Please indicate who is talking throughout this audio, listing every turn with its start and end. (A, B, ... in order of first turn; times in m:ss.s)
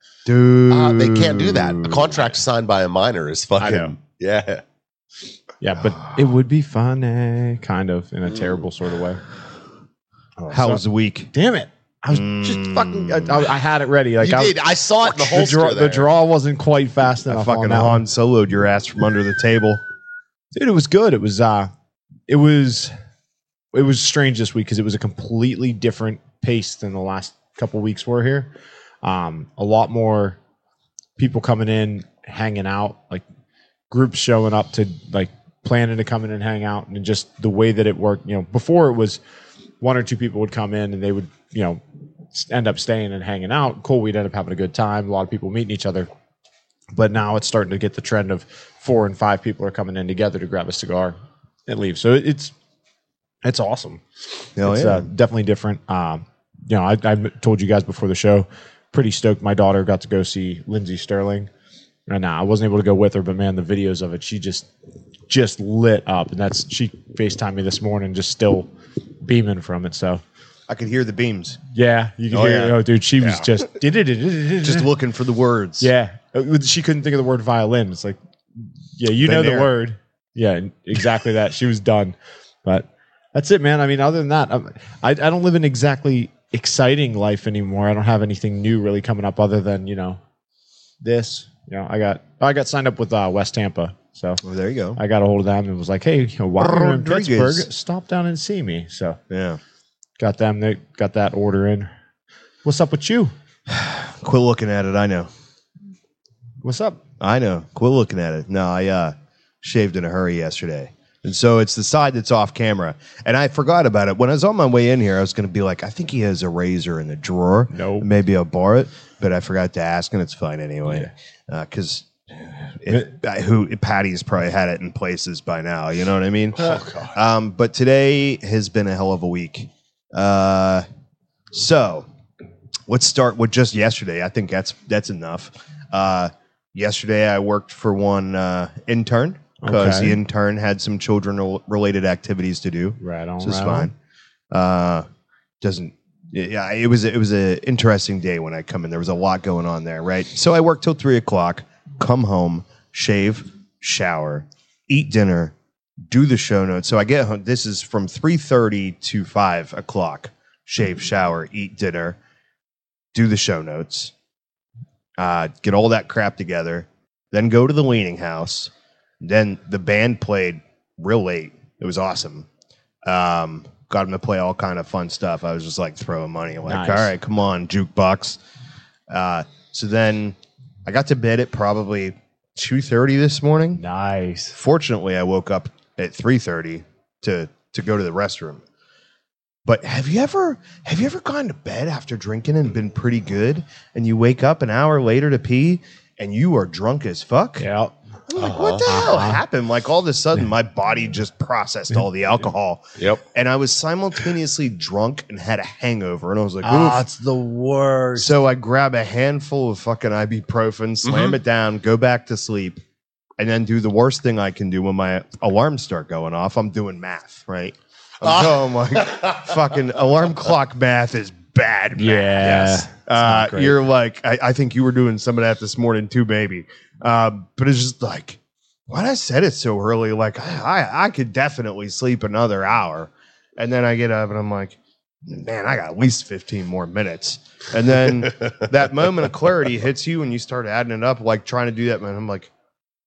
0:00.2-0:02.2 A
0:00.7-0:04.6 B
0:03.6-0:04.0 C
0:05.6-0:09.2 C
0:10.4-0:18.0 C
0:10.5-0:11.3 A
0:12.1-0:13.5 A
0:14.2-0:16.1 B
0:17.3-0:19.8 A
0:20.5-0:21.7 C
0:22.3-0:22.9 C
0:23.7-0:28.5 C
0:29.0-0:30.4 C
0:31.2-0:33.2 C
0:33.9-0:39.2 C
0:39.8-0:41.8 C
0:42.3-0:46.1 C
0:46.9-0:52.5 C
0:53.4-0:54.0 C
0:54.6-0:55.1 A
0:54.6-1:01.5 C
1:02.1-1:04.7 C
1:05.3-1:08.7 C
1:09.2-1:10.2 C
1:10.7-1:11.6 A
1:11.7-1:14.9 C
1:12.3-1:13.4 A
1:14.6-1:15.9 A
1:15.8-1:30.2 C
1:19.2-1:19.7 A
1:31.0-1:34.4 C
1:34.4-1:35.0 A
1:35.0-1:39.2 C
1:36.6-1:37.7 A
1:39.3-1:39.6 A
1:40.2-1:41.9 C
1:42.6-1:43.3 C
1:43.7-1:45.3 A
1:46.6-1:47.0 C
1:47.2-2:10.8 A
1:57.7-1:58.1 C
2:06.6-2:07.2 B
2:11.5-2:12.1 A
2:12.9-2:23.9 A
2:19.6-2:20.2 C
2:23.0-2:23.9 C
2:24.5-2:25.0 A
2:25.6-2:35.5 A
2:36.1-2:42.2 A
2:43.1-2:44.1 A
2:45.2-2:52.5 A
2:53.0-2:58.4 A
2:56.6-2:57.1 C
2:59.1-3:03.8 A
3:03.8-3:04.6 C
3:04.5-3:08.6 A
3:09.6-3:17.6 A
3:17.6-3:17.9 C
3:18.3-3:27.0 A
3:18.4-3:18.9 B
3:18.8-3:19.4 C
3:23.0-3:23.2 B
3:26.6-3:28.4 C
3:28.2-3:32.8 A
3:31.0-3:31.4 B
3:33.4-4:02.5 A
3:38.2-3:39.5 B
3:42.0-3:43.8 C